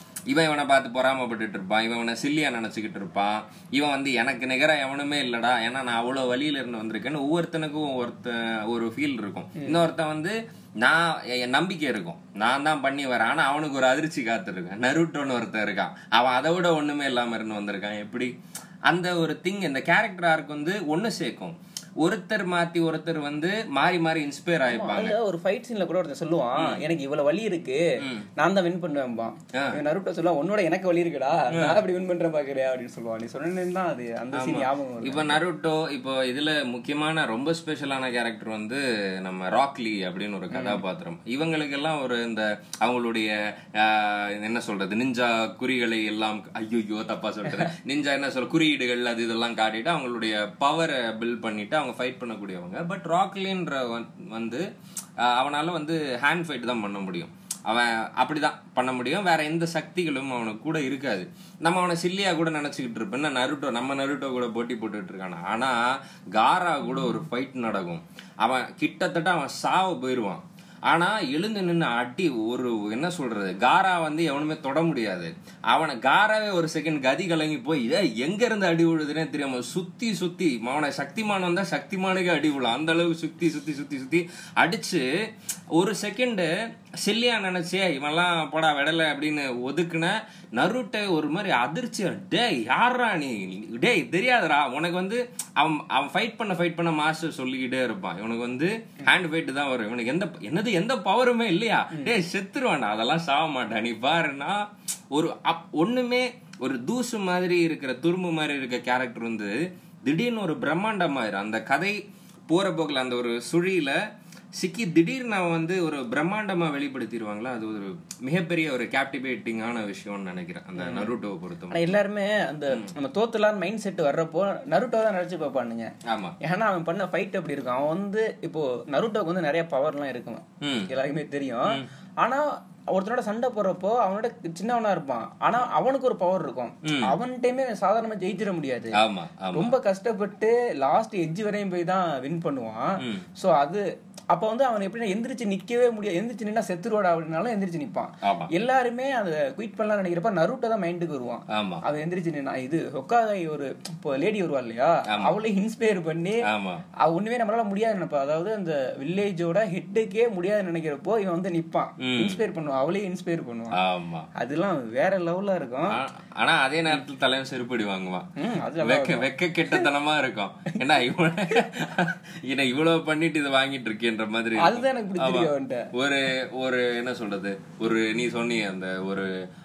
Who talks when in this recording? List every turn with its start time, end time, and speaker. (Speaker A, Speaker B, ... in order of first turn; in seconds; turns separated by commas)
Speaker A: 0.3-18.3, Speaker A: 18.9-25.1, Speaker B: 24.7-27.8, Speaker A: 28.0-28.3, Speaker B: 28.4-35.4, Speaker A: 29.5-29.8, Speaker A: 31.5-31.8, Speaker A: 34.3-54.6, Speaker B: 40.5-40.8, Speaker A: 55.2-85.1, Speaker A: 85.7-86.5, Speaker A: 87.0-104.6, Speaker A: 105.1-112.0, Speaker A: 112.5-114.0, Speaker A: 114.5-121.9, Speaker B: 120.8-121.1, Speaker B: 121.7-125.9, Speaker A: 126.0-126.3, Speaker B: 126.4-138.9, Speaker A: 130.6-130.9, Speaker A: 136.8-137.1, Speaker A: 139.0-139.7, Speaker B: 139.5-156.4, Speaker A: 143.0-143.3, Speaker A: 148.2-148.5, Speaker A: 151.5-151.8, Speaker A: 155.1-155.4, Speaker A: 156.5-156.8, Speaker B: 157.0-163.8, Speaker A: 162.0-162.4, Speaker A: 163.7-164.3, Speaker B: 164.4-165.9, Speaker A: 165.9-168.3, Speaker B: 168.4-169.3, Speaker A: 168.8-179.3, Speaker B: 174.6-175.9